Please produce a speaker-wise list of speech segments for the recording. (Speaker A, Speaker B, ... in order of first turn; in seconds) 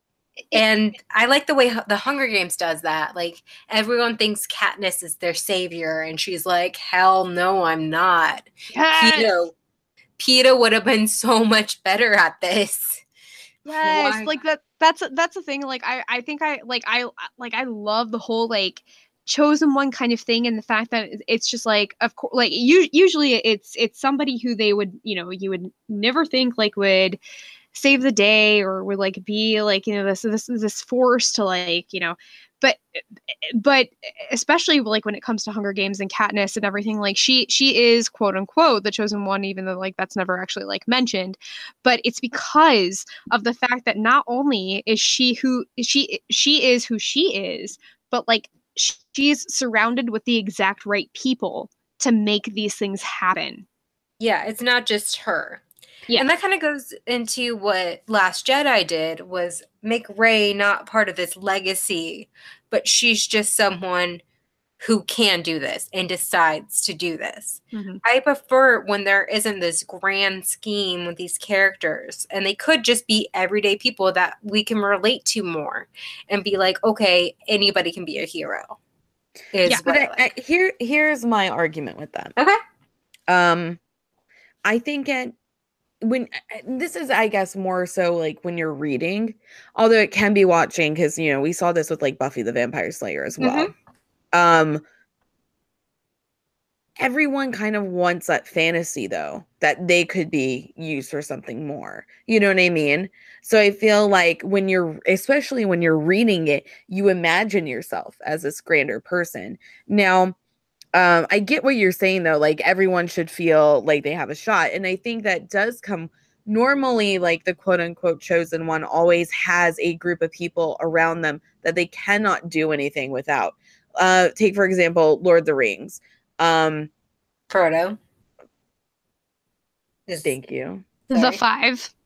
Speaker A: 0.5-9.5, 10.2-13.0, 13.7-14.3, 54.2-55.6, 56.1-64.2, 64.8-78.8, 79.5-80.3, 127.5-128.0, 130.1-130.3, 131.1-131.4
Speaker B: 8.7-9.3, 13.6-27.2, 27.7-53.6, 67.7-68.0, 93.4-93.7, 131.1-131.9
Speaker C: 79.8-82.3, 83.3-83.8, 84.6-85.3, 86.0-93.7, 94.3-94.8, 97.0-110.3, 110.9-126.9, 130.2-130.8